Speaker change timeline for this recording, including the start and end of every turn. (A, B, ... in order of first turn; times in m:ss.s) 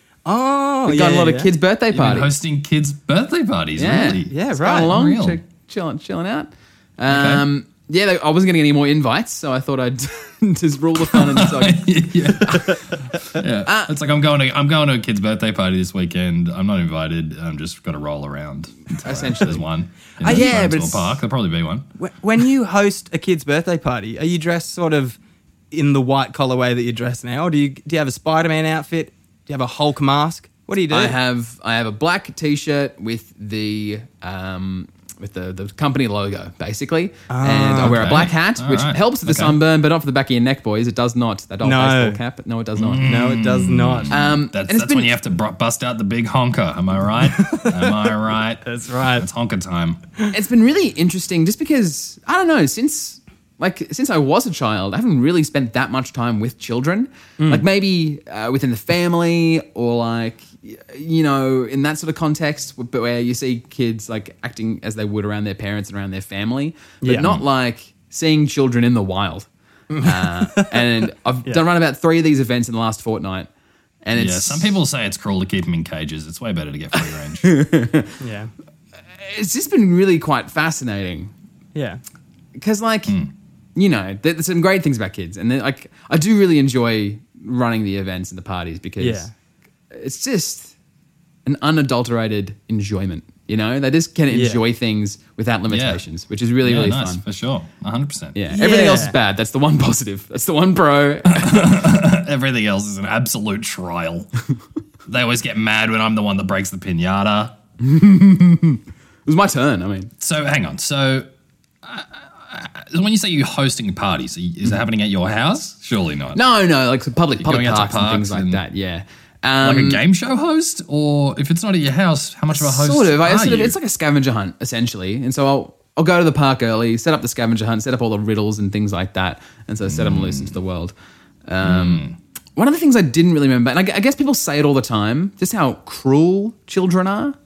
0:00.2-0:01.5 A
0:00.8-0:02.3 B
0:01.9-0:05.4 C
0:03.8-0:12.8 B
0:04.3-0:04.9 A
0:07.1-0:07.4 C
0:11.0-0:21.9 C
0:13.6-0:13.9 B
0:19.0-0:19.6 B
0:20.2-0:21.2 B
0:22.0-0:25.2 A
0:25.7-0:31.2 A
0:30.9-0:43.0 B
0:37.3-0:38.1 A
0:37.8-0:39.6 C
0:41.6-0:42.2 A
0:42.8-0:50.0 C
0:43.0-0:44.2 A
0:44.1-0:45.1 B
0:47.3-0:49.2 A
0:50.3-1:09.5 B
1:07.0-1:07.4 A
1:09.9-1:10.8 A
1:10.0-1:13.5 B
1:14.0-1:14.8 B
1:14.2-1:17.5 C
1:17.0-1:18.1 B
1:18.2-1:18.5 A
1:19.2-1:21.3 B
1:21.7-1:22.0 A
1:22.6-1:23.2 B
1:23.1-1:23.3 C
1:23.8-1:29.3 B
1:29.0-1:29.3 A
1:29.9-1:30.7 B
1:31.5-1:37.2 B
1:34.3-1:34.6 A
1:35.7-1:36.0 C
1:36.6-1:38.4 C
1:38.3-1:41.8 B
1:38.5-1:39.2 A
1:41.2-1:44.3 C
1:45.1-1:47.6 C
1:47.8-1:50.1 B
1:50.2-1:51.3 C
1:51.8-1:56.4 C
1:56.3-2:00.0 B
1:57.4-1:58.6 C
1:59.6-2:03.8 C
2:02.5-2:10.9 B
2:09.9-2:10.5 C
2:11.5-2:12.0 B
2:11.6-2:12.2 C
2:12.6-2:17.3 B